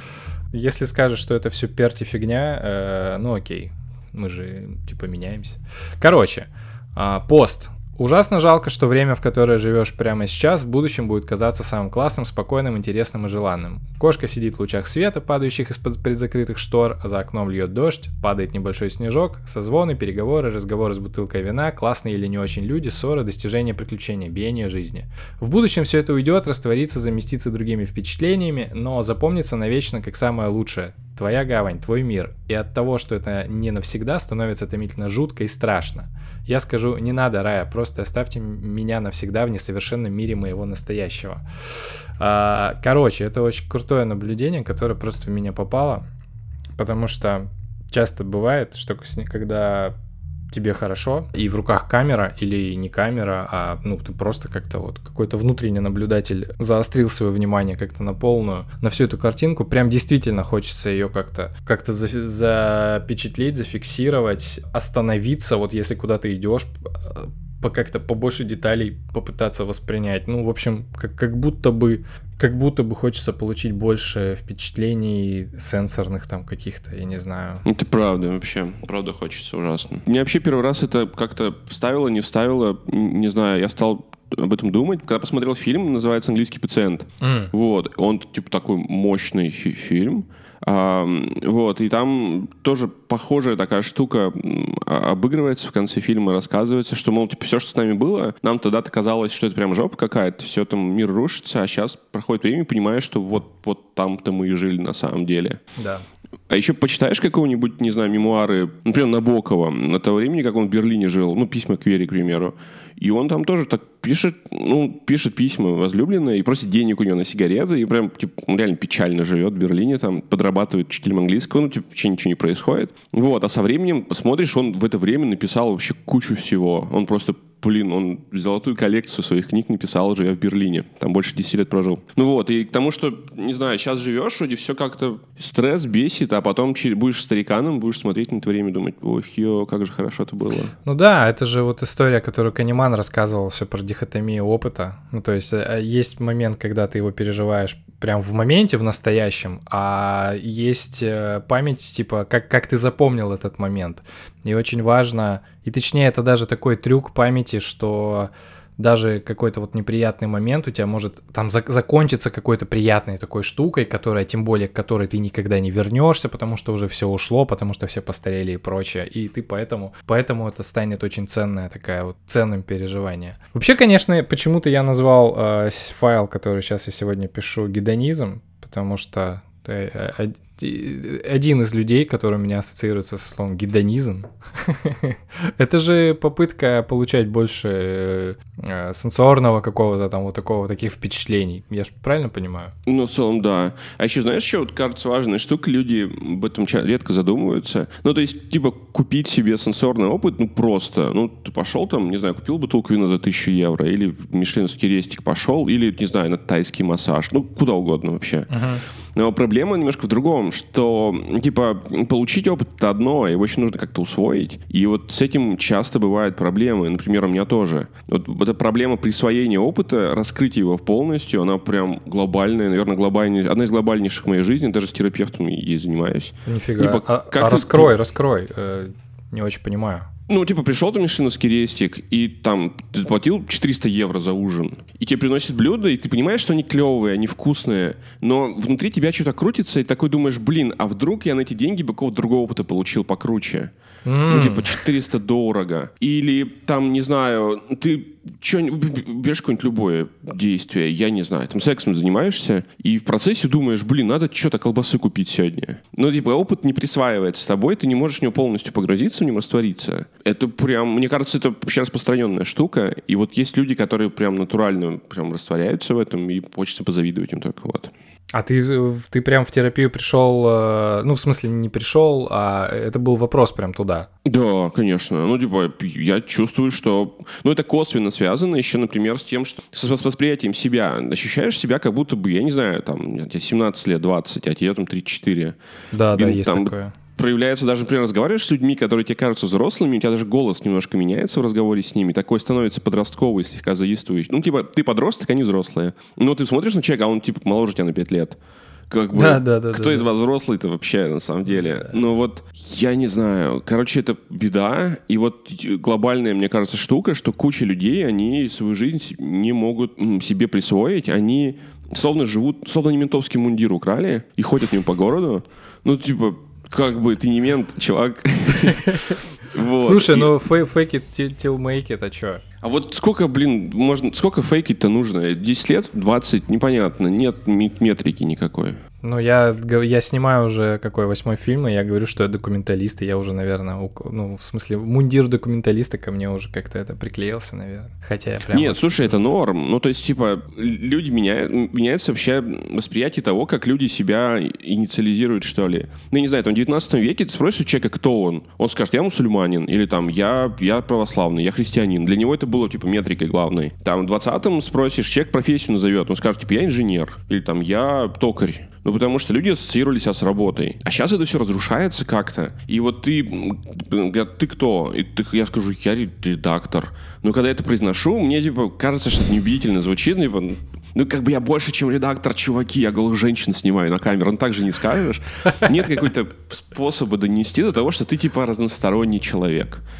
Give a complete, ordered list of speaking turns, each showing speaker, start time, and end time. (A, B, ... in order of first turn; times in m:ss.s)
0:00.5-0:41.4 A
0:42.2-0:46.0 A
0:46.8-0:49.9 A
0:50.5-1:17.6 A
1:17.6-1:45.6 B
1:27.2-1:27.5 A
1:45.8-1:46.0 A
1:46.5-2:20.7 B
2:20.8-3:12.7 A
3:12.8-3:28.6 B
3:28.5-3:28.8 A
3:29.1-3:47.9 B
3:46.4-3:50.1 A
3:50.3-4:03.7 B
4:04.0-4:04.8 A
4:04.3-4:27.9 B
4:28.3-4:34.1 A
4:34.2-4:45.6 B
4:45.9-4:46.9 A
4:46.1-4:58.4 B
4:58.9-5:18.9 B
4:59.1-5:00.0 A
5:19.5-5:20.3 B
5:19.8-5:22.4 A
5:22.6-5:28.8 B
5:29.0-5:39.1 A
5:38.5-6:19.8 B